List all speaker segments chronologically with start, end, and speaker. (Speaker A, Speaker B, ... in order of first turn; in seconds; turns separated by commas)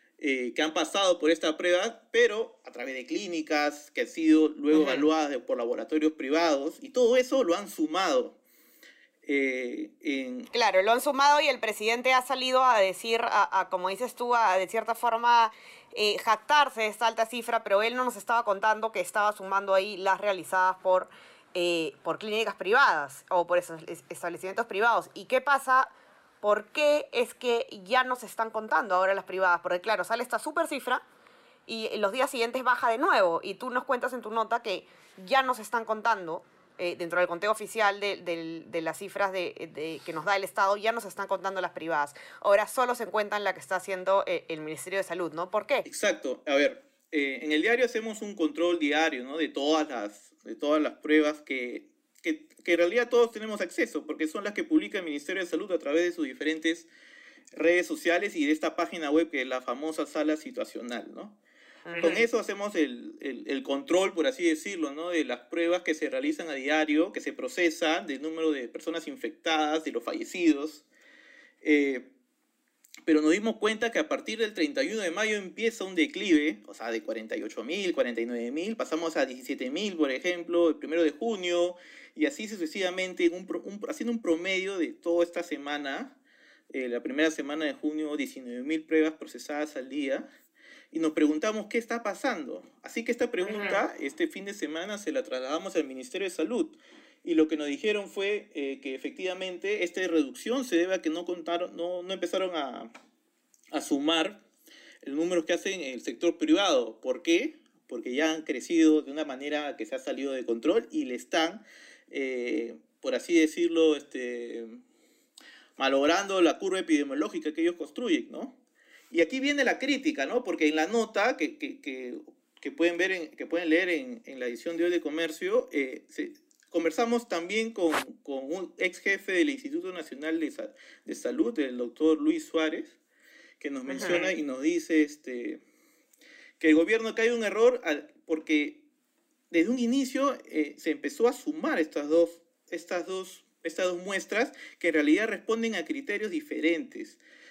Speaker A: 0.2-8.4, Speaker B: 4.7-5.1, Speaker A: 9.2-10.5, Speaker B: 10.5-25.9, Speaker B: 26.4-31.0, Speaker B: 31.7-45.9, Speaker A: 45.9-56.9, Speaker A: 57.5-61.4, Speaker B: 61.9-62.2, Speaker A: 62.0-70.8, Speaker A: 71.6-72.1, Speaker A: 73.0-86.2, Speaker A: 86.7-90.3, Speaker A: 90.9-102.9, Speaker B: 93.4-93.8, Speaker A: 103.7-104.4, Speaker A: 105.0-114.8, Speaker A: 115.8-118.6, Speaker A: 119.1-133.0, Speaker A: 133.6-135.6, Speaker B: 133.9-134.3, Speaker A: 136.6-138.8, Speaker A: 139.5-147.2